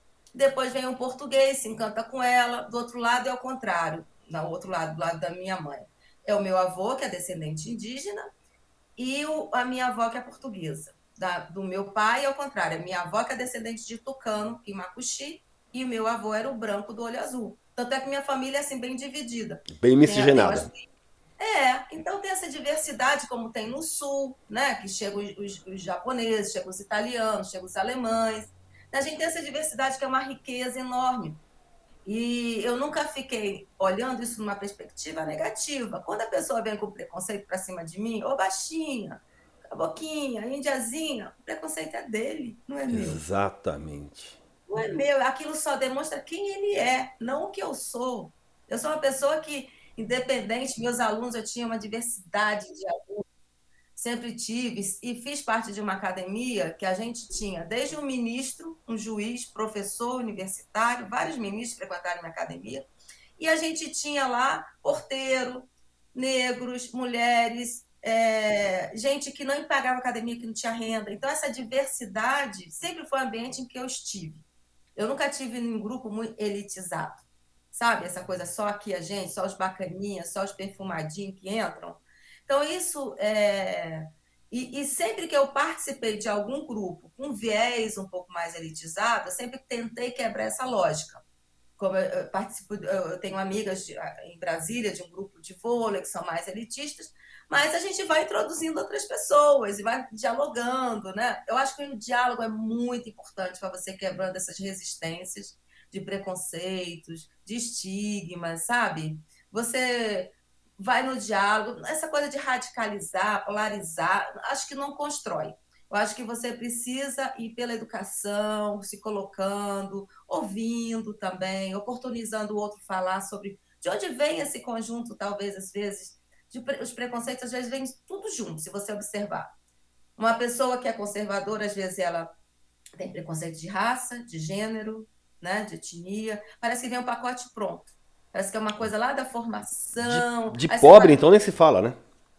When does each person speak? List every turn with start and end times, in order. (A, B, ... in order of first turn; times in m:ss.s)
0:00.4-0:08.3 A
0:09.0-0:20.9 A
0:19.7-0:20.7 B
0:21.4-0:31.4 A
0:32.0-0:43.2 A
0:42.9-0:44.4 B
0:44.7-0:53.2 A
0:54.0-1:14.4 A
1:15.0-1:31.2 A
1:31.8-2:09.5 A
2:10.2-2:12.3 A
2:13.0-2:21.2 A
2:20.0-2:22.0 B